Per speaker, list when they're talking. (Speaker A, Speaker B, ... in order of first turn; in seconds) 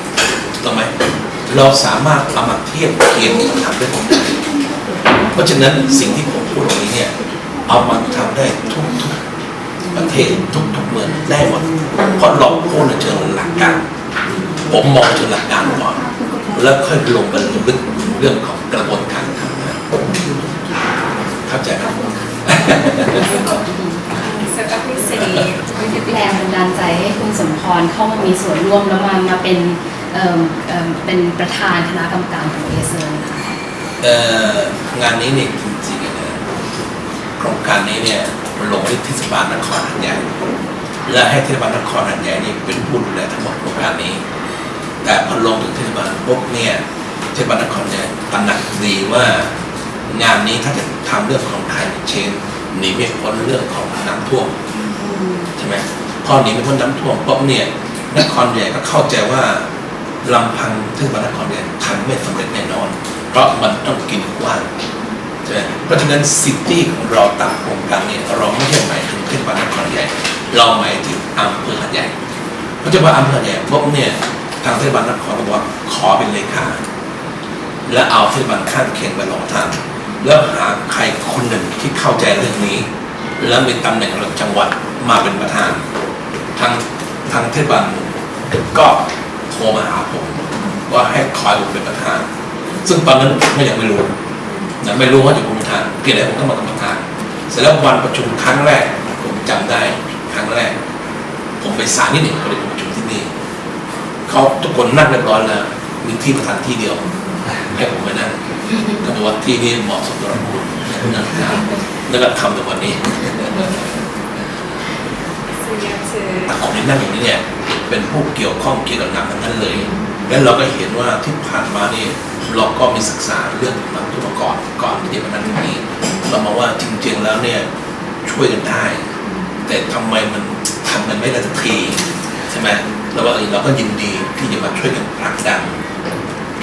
Speaker A: 0.6-0.9, 1.5-4.5, 5.3-9.2, 9.9-13.9, 14.7-19.8, 21.4-23.5, 25.2-25.5, 34.0-36.5, 37.4-40.2, 41.1-44.2, 45.0-46.8, 47.3-49.5, 50.1-54.5, 55.6-59.6, 60.2-64.7, 65.5-72.1, 72.8-76.8, 77.9-82.9, 83.4-85.9, 86.6-92.2, 92.8-94.1, 94.8-100.7, 101.6-103.3, 104.3-108.3, 109.0-114.0, 116.5-127.7, 128.2-129.0, 129.7-135.8
Speaker B: 24.1-26.4, 115.6-116.5
Speaker C: 26.0-33.5, 55.0-55.5